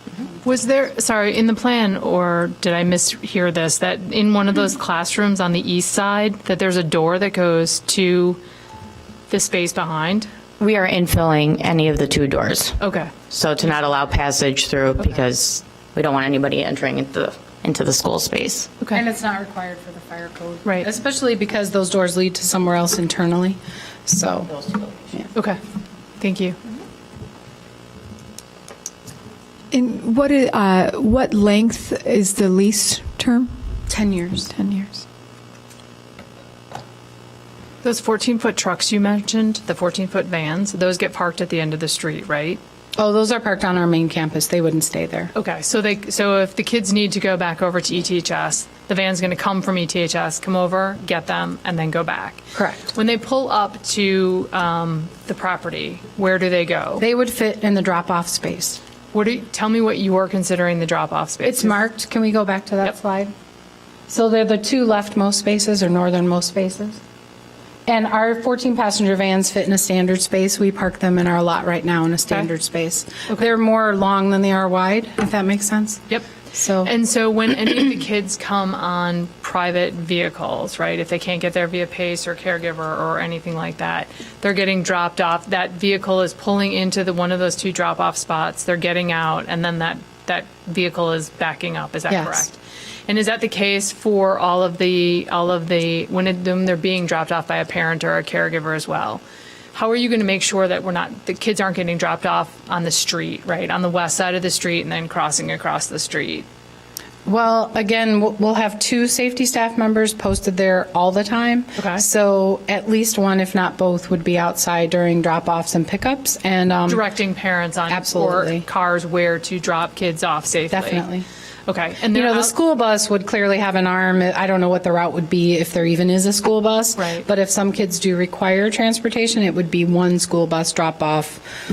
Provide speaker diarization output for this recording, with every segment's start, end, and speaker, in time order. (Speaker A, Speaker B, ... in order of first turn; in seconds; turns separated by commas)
Speaker A: 0.4-8.4, Speaker A: 9.3-10.3, Speaker B: 10.6-18.7, Speaker A: 12.8-13.1, Speaker C: 18.9-24.5, Speaker A: 26.2-26.6, Speaker D: 29.7-33.5, Speaker C: 33.9-34.5, Speaker D: 34.5-35.0, Speaker A: 37.8-42.6, Speaker C: 43.0-45.3, Speaker A: 45.3-57.0, Speaker C: 52.5-52.9, Speaker C: 57.0-58.8, Speaker A: 59.1-61.8, Speaker C: 61.4-63.3, Speaker C: 64.1-67.0, Speaker C: 67.8-76.0, Speaker C: 76.5-76.9, Speaker A: 76.8-92.5, Speaker C: 92.1-92.5, Speaker A: 93.1-99.2, Speaker A: 99.7-106.5, Speaker C: 107.2-117.0, Speaker A: 111.8-112.0, Speaker A: 116.9-121.0, Speaker C: 117.9-118.7, Speaker C: 120.7-121.2, Speaker A: 121.7-122.5, Speaker C: 122.1-131.4, Speaker A: 127.0-127.2